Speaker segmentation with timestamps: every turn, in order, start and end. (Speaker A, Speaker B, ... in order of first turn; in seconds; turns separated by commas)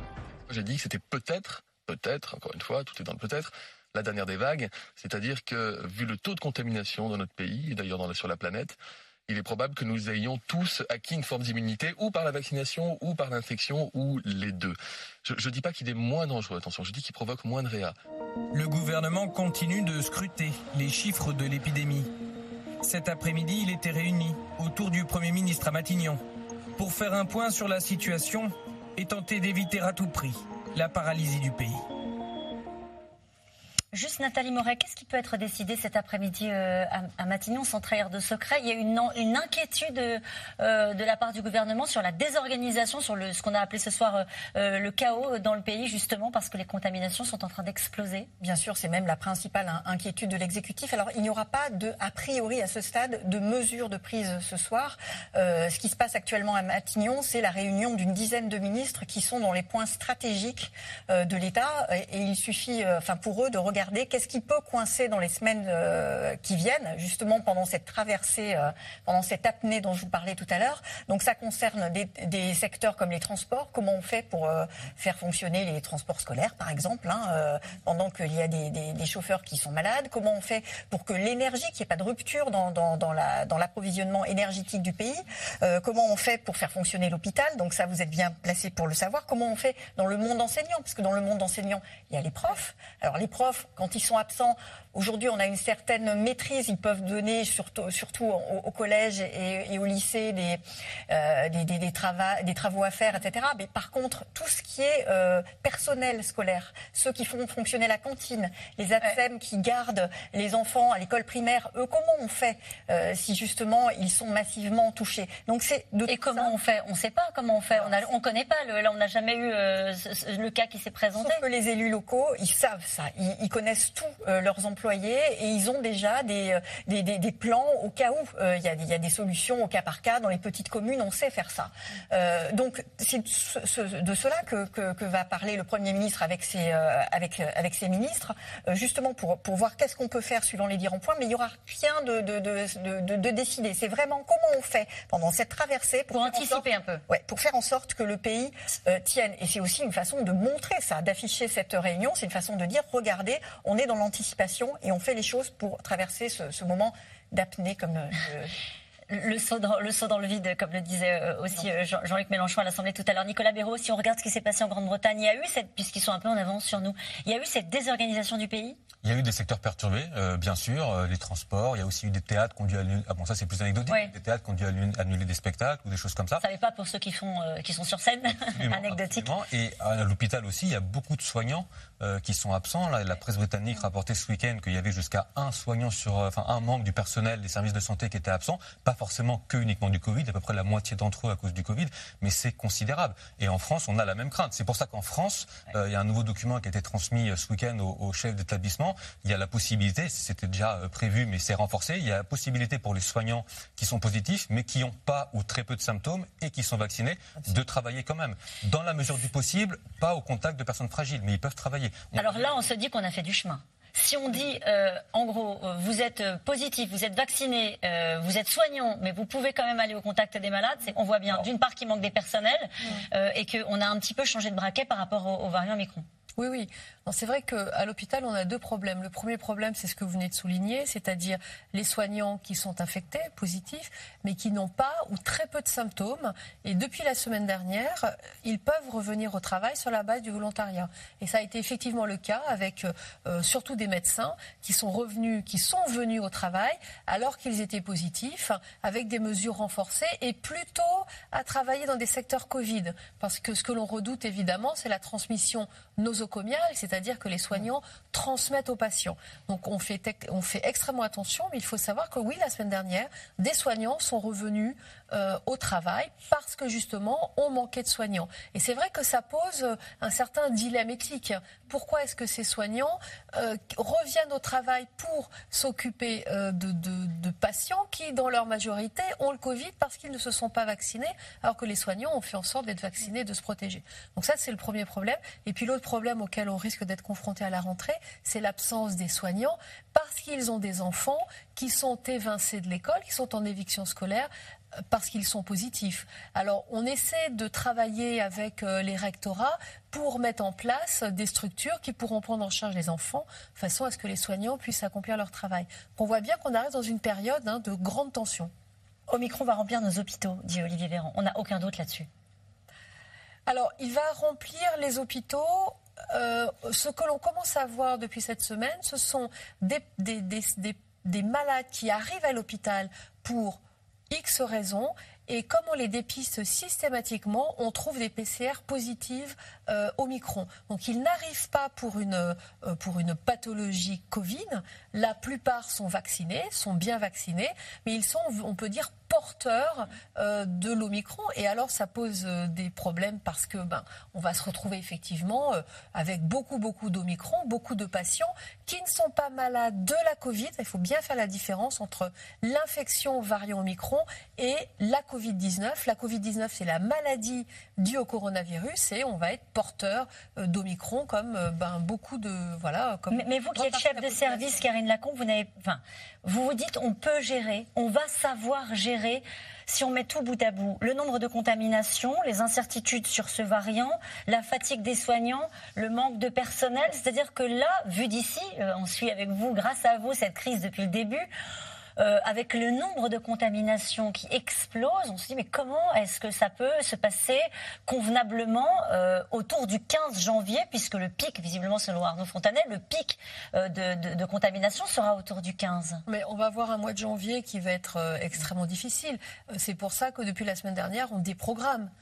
Speaker A: 0.5-18.0, Speaker B: 18.5-22.1, Speaker B: 22.8-26.2, Speaker B: 26.8-31.9, Speaker C: 33.9-48.3, Speaker D: 48.4-116.5, Speaker C: 116.1-121.4, Speaker D: 117.7-118.0, Speaker D: 121.2-158.5, Speaker C: 146.1-147.0, Speaker C: 159.1-168.8, Speaker E: 169.0-176.4, Speaker C: 173.9-174.1, Speaker C: 176.4-179.3, Speaker E: 178.5-212.5, Speaker C: 212.2-226.1, Speaker F: 226.4-294.3, Speaker F: 294.9-308.5, Speaker C: 309.1-312.1, Speaker F: 313.5-364.6, Speaker C: 363.1-381.3, Speaker C: 382.0-396.0, Speaker F: 396.1-401.9